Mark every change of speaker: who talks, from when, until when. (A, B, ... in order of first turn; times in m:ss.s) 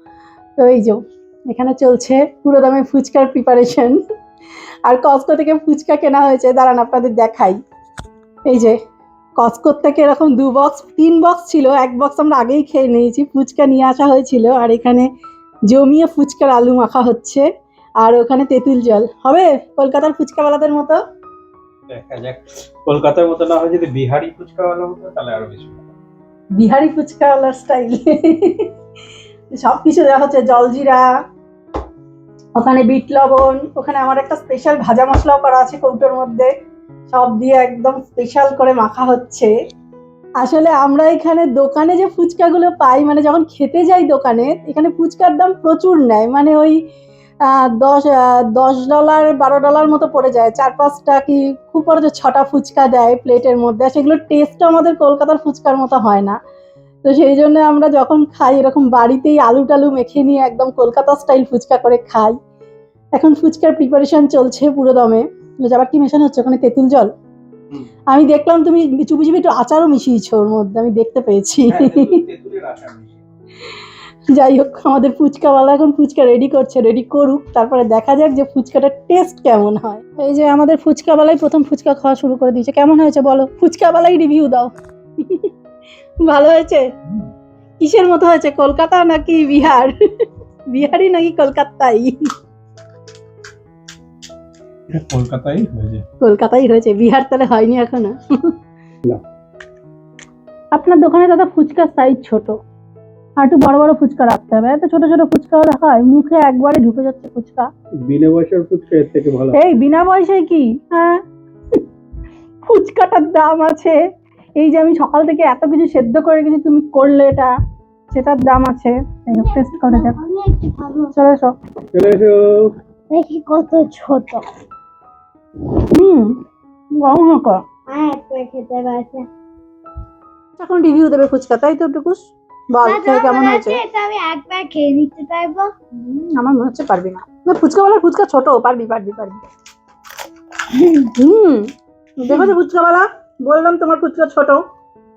0:00.6-0:04.0 A
0:04.8-0:07.6 A
0:08.4-0:08.8 A
0:09.4-0:15.1 A
0:15.7-0:17.4 A
0:18.0-0:21.0 A
0:21.9-0:25.9 B
0:26.6-0:28.7 A
0:29.5-0:31.1 A
0:32.6-0:36.5 A
0:37.1-0:39.5 A
0:40.4-0:46.8 A
0:47.4-0:56.4 A
0:57.0-1:02.4 A
1:03.2-1:07.1 A
1:08.1-1:12.2 A
1:11.7-1:13.2 B
1:14.3-1:25.5 A
1:26.2-1:26.9 A
1:27.8-1:29.9 A
1:30.7-1:32.2 A
1:34.9-1:36.0 B
1:36.2-1:38.5 A
1:40.7-1:42.6 A
1:43.4-1:47.7 A
1:48.0-1:49.6 B
1:49.5-1:51.2 A
1:52.6-1:54.0 A
1:54.6-1:57.5 A
1:58.1-2:00.2 A
1:59.3-2:01.1 C
2:01.1-2:01.5 A
2:01.9-2:02.7 B
2:03.1-2:04.5 C
2:05.9-2:06.4 A
2:07.0-2:07.6 A
2:07.9-2:09.3 C
2:10.6-2:13.8 A
2:12.8-2:15.7 C
2:15.9-2:19.4 A
2:20.7-2:21.1 C
2:21.1-2:24.6 A